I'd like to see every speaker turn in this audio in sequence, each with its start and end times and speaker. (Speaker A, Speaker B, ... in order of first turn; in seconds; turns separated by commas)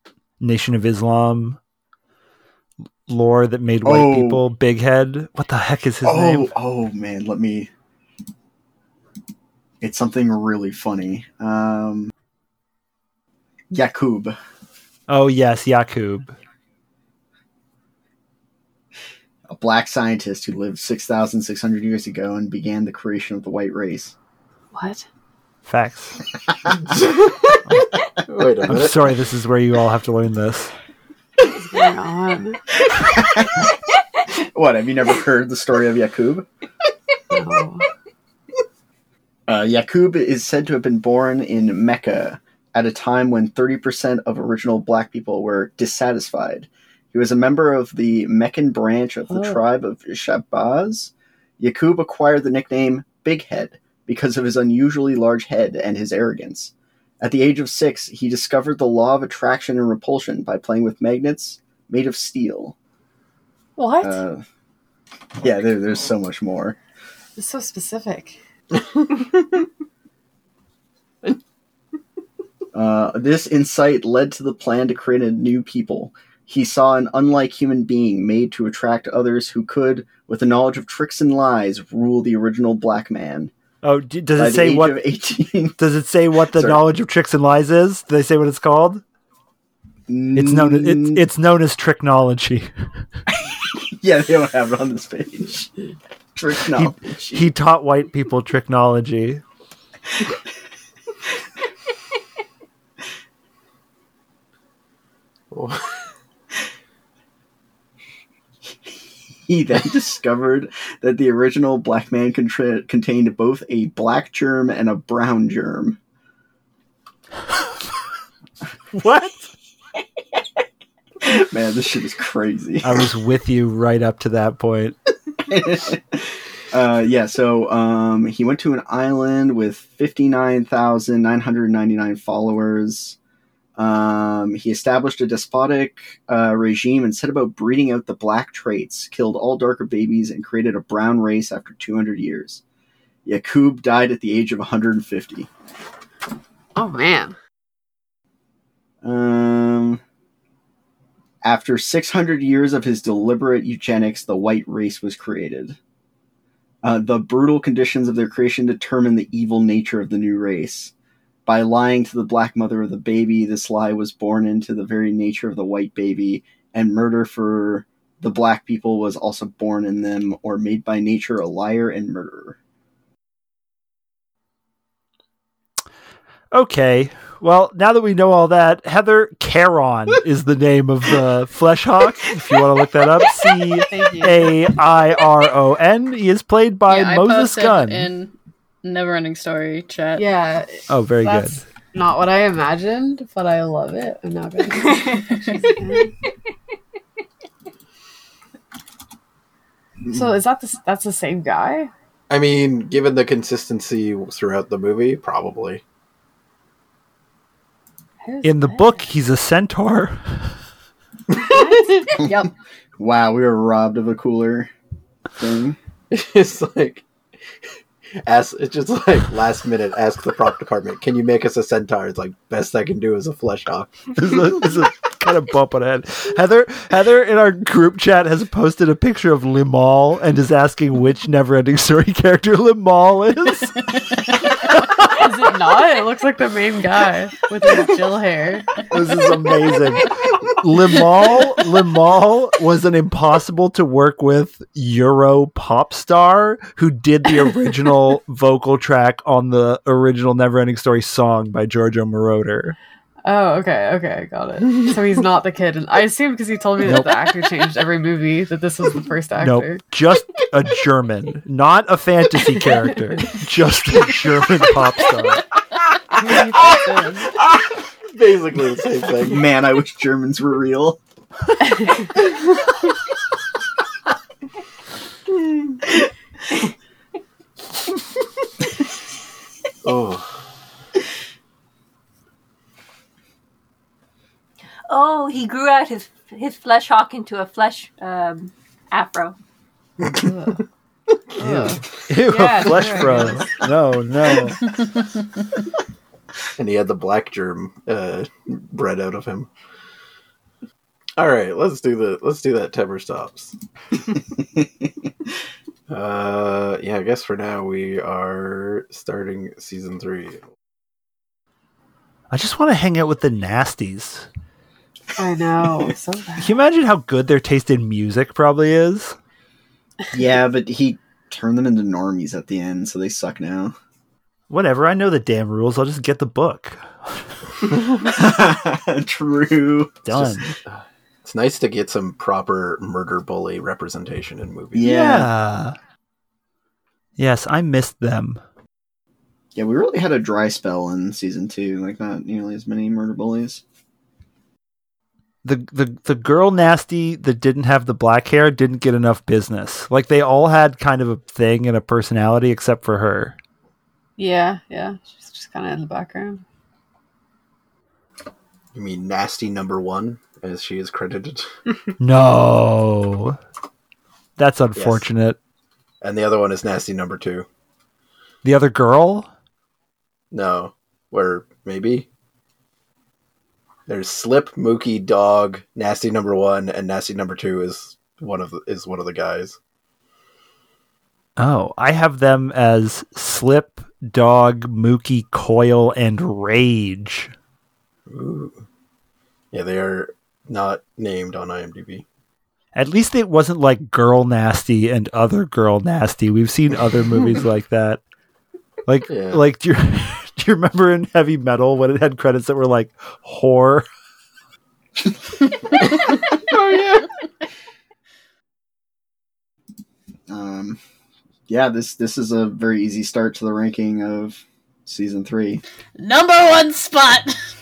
Speaker A: 0.4-1.6, Speaker A: 3.1-6.5, Speaker B: 3.8-4.4, Speaker B: 6.0-7.7, Speaker B: 9.8-12.1, Speaker B: 13.7-14.4, Speaker A: 15.1-16.3, Speaker B: 19.5-24.1, Speaker C: 24.7-25.1, Speaker A: 25.6-26.2, Speaker D: 26.9-27.4, Speaker A: 27.7-28.0, Speaker D: 28.3-29.2, Speaker A: 28.7-30.7, Speaker C: 31.5-32.6, Speaker B: 32.9-33.7, Speaker B: 34.3-36.5, Speaker C: 37.3-37.9, Speaker B: 39.5-62.7, Speaker C: 49.3-49.6, Speaker C: 63.8-64.2, Speaker B: 64.0-64.4, Speaker B: 65.4-66.8, Speaker C: 67.4-68.4, Speaker B: 72.7-83.5, Speaker A: 83.8-85.0, Speaker B: 84.4-85.8, Speaker A: 85.8-89.0, Speaker B: 86.5-86.8, Speaker B: 90.1-91.2, Speaker A: 90.3-92.7, Speaker B: 93.4-95.7, Speaker B: 96.3-97.5, Speaker A: 96.7-99.4, Speaker D: 105.5-106.0, Speaker B: 109.5-116.0, Speaker A: 118.9-119.5, Speaker B: 121.2-123.1, Speaker A: 122.8-125.0, Speaker B: 125.5-126.2, Speaker B: 126.7-133.2, Speaker B: 133.8-142.6, Speaker B: 143.2-145.5, Speaker C: 146.8-147.3, Speaker B: 149.0-150.0, Speaker B: 151.4-155.8, Speaker B: 156.8-160.9, Speaker B: 161.4-172.6, Speaker A: 176.5-188.1, Speaker C: 183.9-184.6, Speaker E: 186.9-190.3, Speaker C: 190.2-196.1, Speaker A: 190.9-191.6, Speaker C: 200.1-201.9, Speaker D: 202.3-205.8, Speaker C: 208.2-209.1, Speaker A: 208.4-210.6, Speaker C: 211.3-212.1, Speaker E: 212.2-212.5, Speaker B: 213.0-214.7, Speaker B: 215.4-215.8, Speaker D: 216.1-217.0, Speaker D: 218.2-224.2, Speaker A: 224.1-233.7, Speaker A: 234.5-235.2, Speaker C: 235.0-238.8, Speaker A: 238.9-252.8, Speaker C: 253.2-259.8, Speaker A: 256.8-257.1, Speaker A: 259.4-265.5, Speaker C: 266.1-267.3, Speaker D: 268.1-269.4, Speaker B: 269.2-271.0, Speaker C: 271.6-272.1, Speaker D: 279.8-280.3, Speaker F: 284.9-289.4, Speaker C: 290.1-290.6, Speaker C: 291.4-293.5, Speaker A: 291.4-294.6, Speaker D: 296.6-299.5, Speaker D: 301.2-303.5, Speaker B: 304.4-304.7, Speaker D: 305.9-310.4, Speaker A: 312.3-314.3, Speaker C: 315.1-316.6, Speaker A: 316.4-319.1, Speaker B: 320.1-323.7, Speaker A: 324.5-327.3, Speaker B: 327.9-330.3, Speaker A: 330.1-330.6, Speaker D: 330.6-334.9, Speaker B: 334.7-335.3, Speaker A: 334.8-335.8, Speaker A: 337.2-338.4, Speaker B: 339.5-343.6, Speaker A: 345.4-353.4, Speaker C: 354.2-356.4, Speaker D: 358.7-361.5, Speaker A: 362.0-363.4, Speaker A: 364.4-365.4, Speaker D: 364.8-365.0, Speaker D: 366.0-367.4, Speaker A: 368.4-369.3, Speaker D: 370.3-372.1, Speaker D: 373.9-379.6, Speaker A: 381.4-387.3, Speaker D: 388.1-388.6, Speaker D: 389.5-392.0, Speaker A: 392.7-398.0, Speaker A: 398.9-403.9, Speaker D: 399.1-399.4, Speaker D: 406.0-407.1, Speaker B: 410.3-410.8, Speaker B: 411.5-415.6, Speaker E: 416.0-417.4